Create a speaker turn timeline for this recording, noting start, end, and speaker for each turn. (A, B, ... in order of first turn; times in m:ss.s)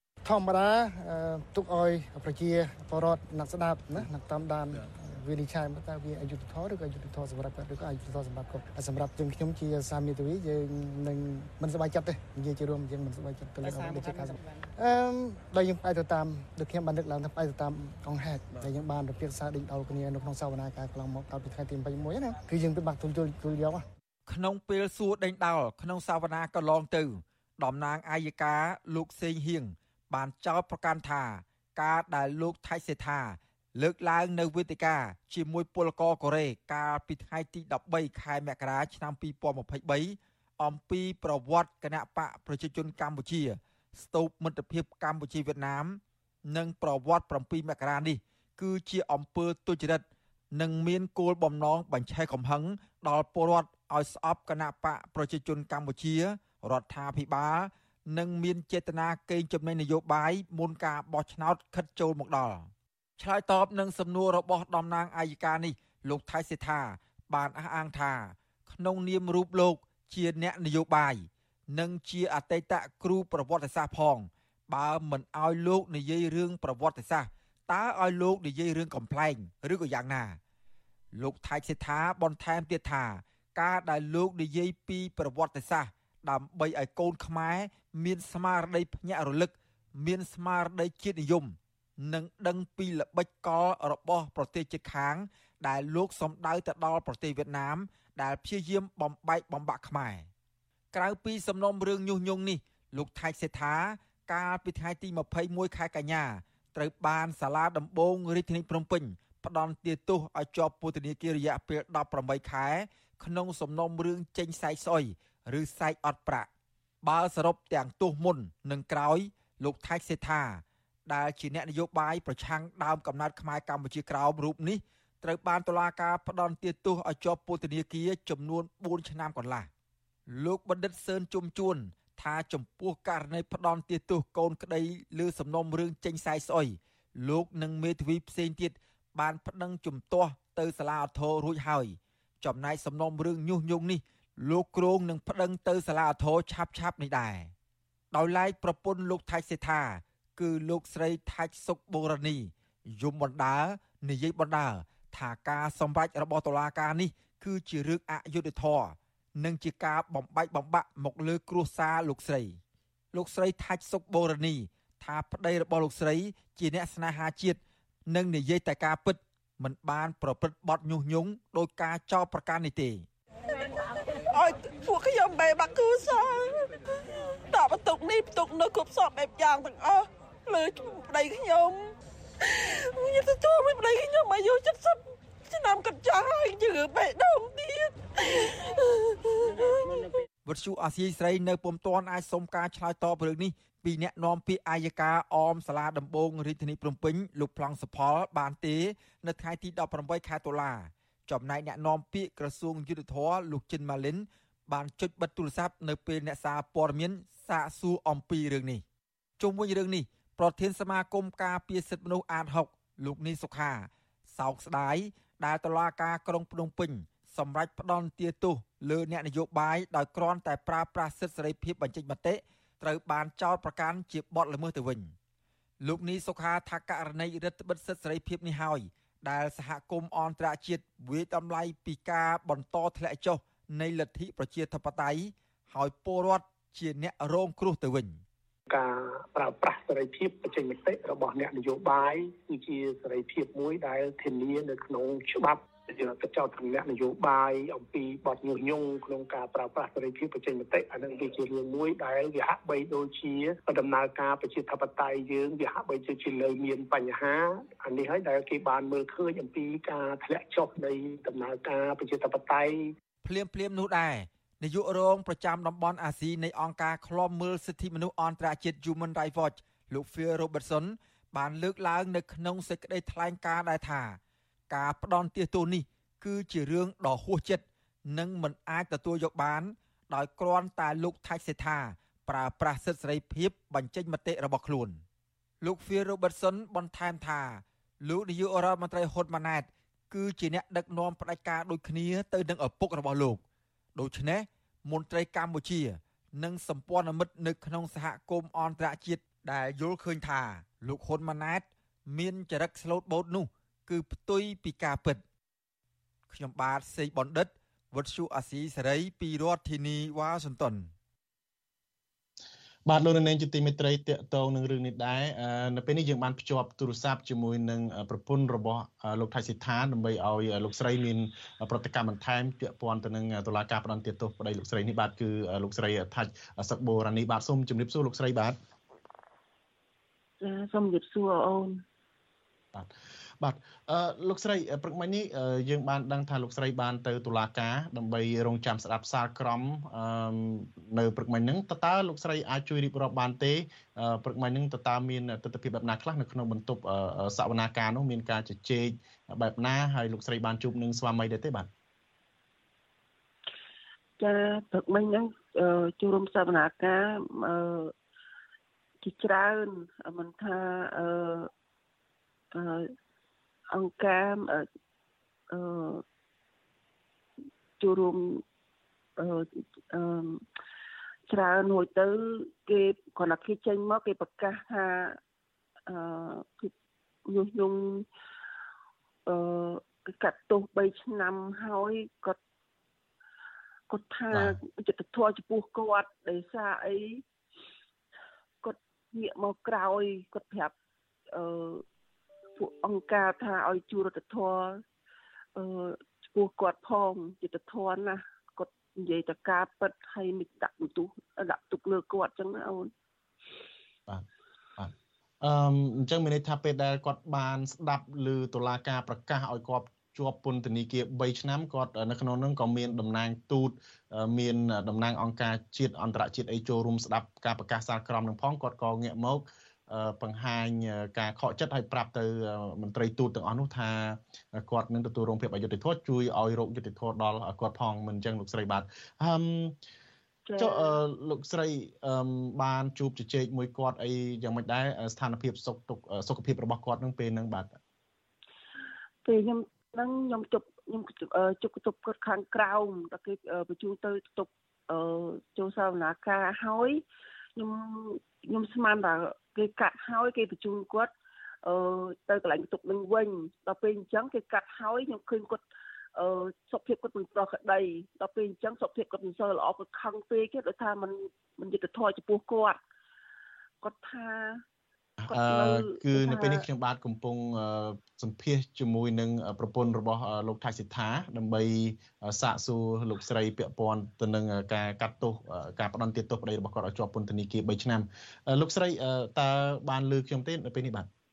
0:00.2-0:23.9 A
0:24.3-1:20.4 B
1:21.1-1:40.3 B
1:40.9-1:56.5 B
1:57.0-2:09.7 B
2:10.3-2:27.5 B
2:28.1-2:42.6 B
2:43.1-2:53.0 B
2:54.3-2:56.8 C
2:57.5-3:10.1 C
3:10.4-3:28.8 B
3:29.4-3:45.1 B
3:45.8-3:58.2 B
3:58.7-4:22.9 D
4:23.2-4:34.2 B
4:34.7-4:45.0 B
4:45.6-4:53.4 B
4:54.0-5:05.2 B
5:06.3-5:10.9 B
5:12.9-5:28.6 E
5:30.4-5:31.8 F
5:32.7-5:51.7 E
5:54.2-5:57.9 F
5:59.0-6:01.5 F
6:02.5-6:02.9 F
6:03.7-6:04.7 F
6:05.5-6:06.0 F
6:07.8-6:08.4 F
6:09.2-6:10.4 F
6:11.3-6:15.2 F
6:15.9-6:16.7 F
6:17.3-6:18.1 F
6:19.3-6:22.4 F
6:23.9-6:27.2 F
6:24.3-6:24.6 E
6:28.6-6:30.7 F
6:31.3-6:31.8 F
6:32.6-6:34.8 F
6:35.6-6:42.9 F
6:44.8-7:09.8 E
7:10.5-7:11.0 F
7:10.6-7:17.8 E
7:19.2-7:27.0 F
7:27.6-7:31.1 F
7:31.6-7:35.6 F
7:36.2-7:42.8 F
7:43.8-7:44.6 F
7:45.2-8:01.1 E
7:45.3-7:46.6 F